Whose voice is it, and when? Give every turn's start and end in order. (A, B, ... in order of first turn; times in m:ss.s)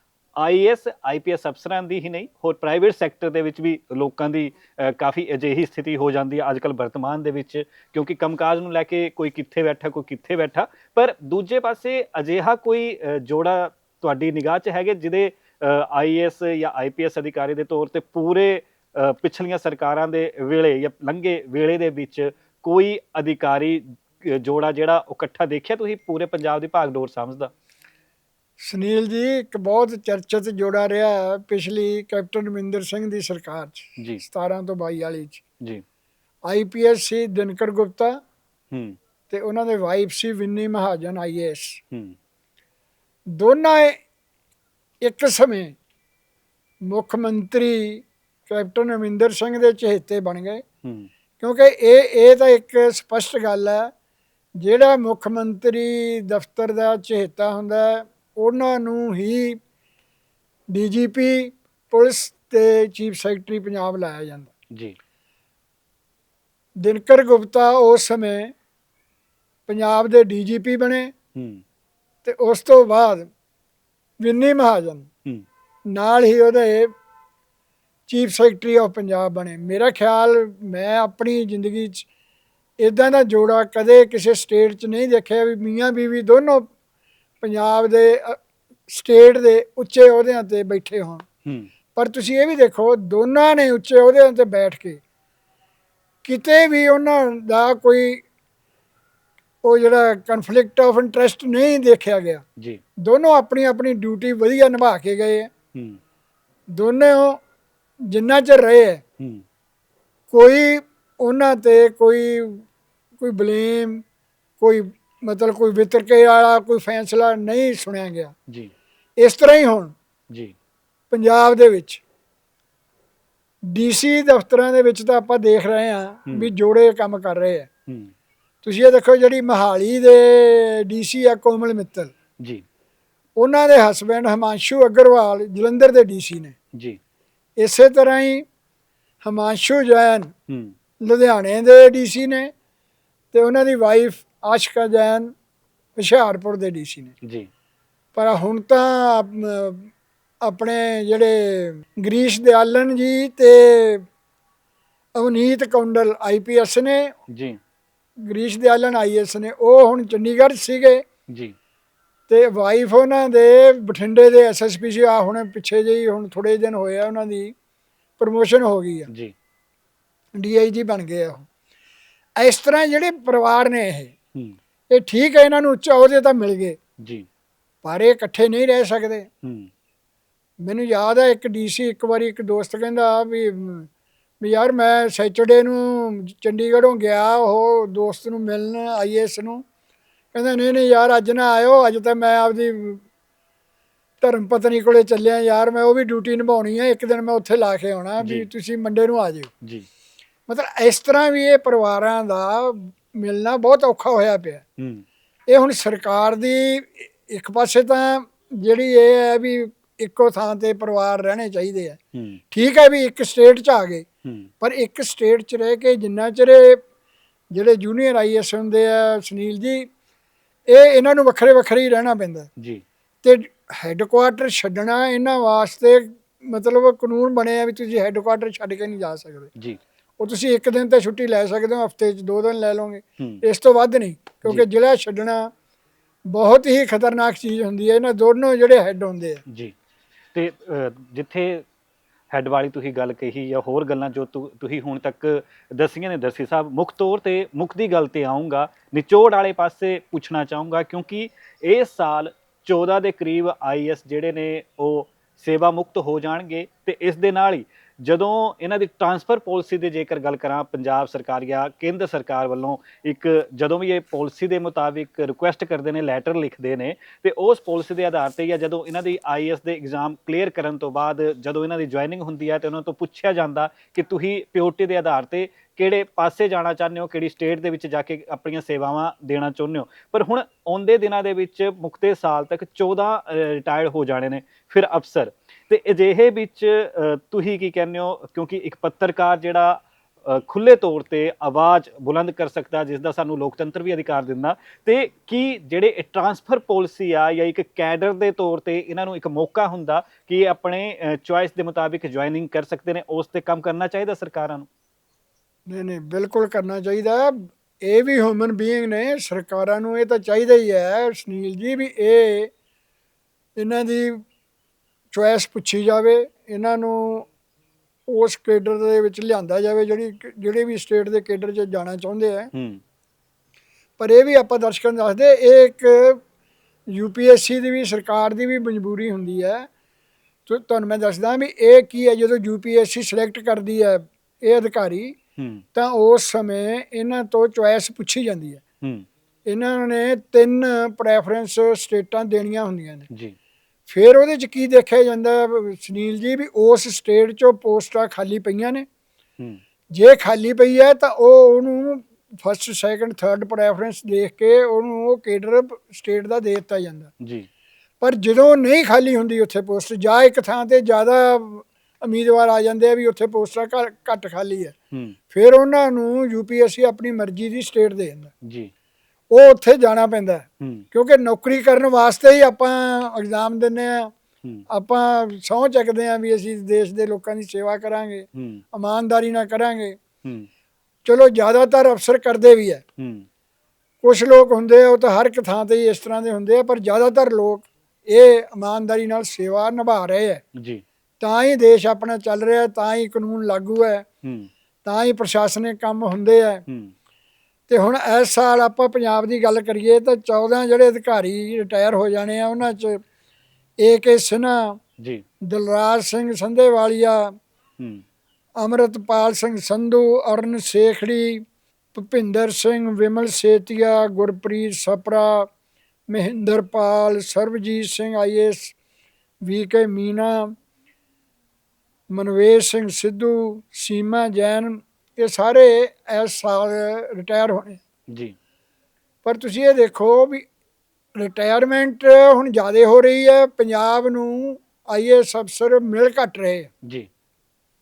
0:00.4-0:27.5 A
0:28.6-0:35.4 B
0:34.0-0:34.2 A
0:36.4-0:38.2 B
0:38.7-0:39.0 A
0:39.3-0:41.8 B
0:43.4-0:44.0 B
0:45.0-0:45.8 B
0:46.9-0:50.6 B
0:51.4-0:53.9 B
0:54.6-0:59.6 B
1:00.7-1:04.5 B
1:06.8-1:08.5 B
1:09.7-1:11.1 B
1:11.4-1:11.6 A
1:12.2-1:13.3 B
1:14.2-1:15.1 B
1:15.9-1:16.9 B
1:18.1-1:22.1 B
1:22.8-1:26.7 B
1:27.4-1:31.2 B
1:31.9-1:35.0 B
1:36.2-1:38.2 B
1:39.6-1:42.4 B
1:43.0-1:45.5 B
1:46.7-1:47.4 B
1:48.1-1:49.0 B
1:50.3-1:52.6 B
1:53.2-1:54.0 B
1:54.6-1:58.3 B
1:59.2-1:59.9 B
2:01.1-2:02.0 B
2:03.7-2:07.7 B
2:07.9-2:08.1 A
2:08.6-2:12.1 B
2:13.4-2:16.5 B
2:17.6-2:18.4 B
2:19.2-2:20.3 B
2:20.5-2:20.7 A
2:21.0-2:22.5 B
2:23.3-2:25.3 B
2:26.0-2:27.1 B
2:27.2-2:27.5 A
2:28.1-2:29.9 B
2:30.4-2:34.1 B
2:35.2-2:37.2 B
2:37.3-2:37.6 A
2:38.3-2:41.0 B
2:42.3-2:47.5 B
2:48.2-2:49.1 B
2:49.1-2:49.3 A
2:50.3-2:51.5 B
2:52.4-2:54.1 B
2:54.9-2:56.8 B
2:57.8-2:59.3 B
2:59.4-2:59.7 A
3:00.6-3:03.9 B
3:04.4-3:09.6 B
3:10.3-3:13.0 B
3:14.2-3:19.5 B
3:18.2-3:18.5 A
3:20.5-3:24.6 B
3:24.8-3:25.0 A
3:25.5-3:32.0 B
3:32.1-3:32.4 A
3:32.5-3:34.0 B
3:34.2-3:34.5 A
3:34.6-3:36.8 B
3:37.5-3:39.9 B
3:40.7-3:42.5 B
3:43.2-3:49.5 B
3:50.2-3:55.5 B
3:56.3-3:59.4 B
3:59.5-3:59.7 A
4:00.3-4:01.6 A
4:02.3-5:04.7 A
5:05.7-5:12.5 B
5:13.6-5:14.2 B
5:15.1-5:17.3 B
5:18.1-5:22.5 B
5:22.5-5:22.8 A
5:24.0-5:26.2 B
5:26.9-5:29.7 B
5:30.4-5:35.2 B
5:35.4-5:35.6 A
5:35.7-5:38.6 B
5:39.4-5:43.1 B
5:43.1-5:43.4 A
5:43.9-5:48.8 B
5:49.9-5:57.1 B
5:57.2-5:57.5 A
5:58.0-6:04.7 B
6:05.3-6:08.3 B
6:08.4-6:08.7 A
6:09.3-6:14.1 B
6:14.7-6:20.0 B
6:18.3-6:18.6 A
6:21.0-6:22.8 B
6:23.0-6:23.2 A
6:24.0-6:30.4 B
6:30.6-6:30.8 A
6:31.2-6:34.0 B
6:34.2-6:34.5 A
6:34.8-6:36.6 B
6:36.7-6:36.9 A
6:37.7-6:43.0 B
6:43.8-6:44.8 B
6:45.4-6:47.3 B
6:48.6-6:51.4 B
6:51.9-6:55.5 B
6:56.1-6:58.7 B
6:59.4-7:00.5 B
7:02.1-7:07.8 B
7:09.2-7:10.5 B
7:11.2-7:16.7 B